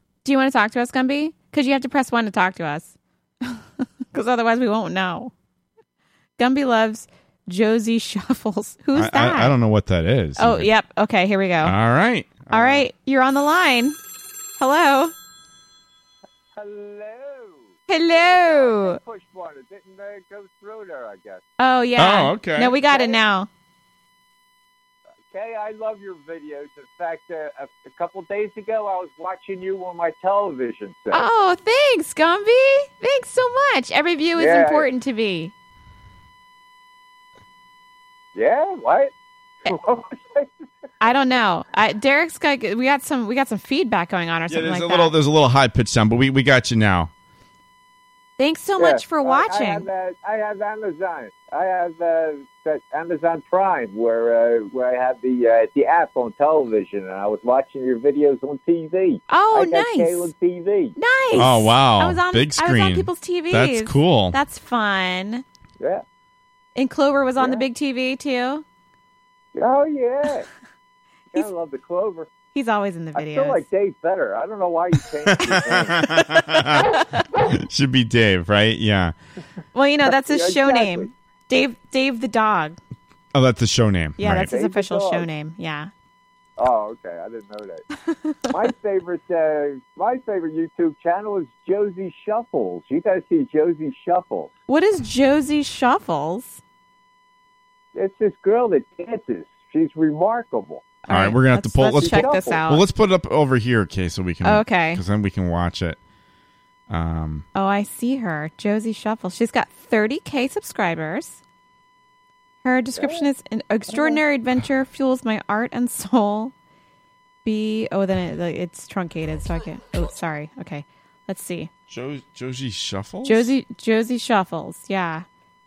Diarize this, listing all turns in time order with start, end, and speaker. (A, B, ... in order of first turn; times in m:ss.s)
0:00.2-0:05.3 A
0:06.4-0:09.6 A
0:08.9-0:10.7 B
0:10.4-0:11.7 A
0:11.6-0:12.8 B
0:12.5-0:14.0 A
0:14.6-0:15.1 A
0:16.6-0:21.4 C
0:17.9-0:19.0 A
0:21.6-0:23.5 A
0:22.0-0:22.8 B
0:22.9-0:23.2 C
0:25.3-0:31.3 C
0:31.1-0:35.5 A
0:34.4-0:34.9 C
0:38.3-0:39.1 C
0:39.7-0:40.5 C
0:41.0-0:45.1 A
0:44.5-0:47.1 B
0:48.4-0:49.8 A
0:48.8-1:01.0 C
0:59.3-1:00.3 A
1:01.0-1:05.4 A
1:01.3-1:04.4 B
1:06.7-1:08.6 A
1:07.4-1:07.6 C
1:09.5-1:10.5 C
1:11.3-1:12.3 C
1:12.5-1:13.6 A
1:13.1-1:16.0 C
1:15.3-1:19.1 B
1:15.4-1:17.2 A
1:19.7-1:22.8 A
1:20.1-1:21.1 C
1:23.3-1:24.5 B
1:24.2-1:25.9 A
1:24.5-1:25.3 C
1:26.6-1:27.8 C
1:28.1-1:28.5 A
1:28.5-1:34.5 C
1:34.7-1:36.6 A
1:37.9-1:41.0 C
1:41.0-1:42.8 A
1:41.1-1:46.0 B
1:41.9-1:42.6 C
1:44.4-1:45.0 A
1:46.9-1:47.4 B
1:47.5-1:51.4 A
1:52.6-1:56.5 A
1:53.0-1:53.3 C
1:53.9-1:54.2 C
1:57.4-2:01.7 A
2:01.9-2:03.5 B
2:03.2-2:05.2 A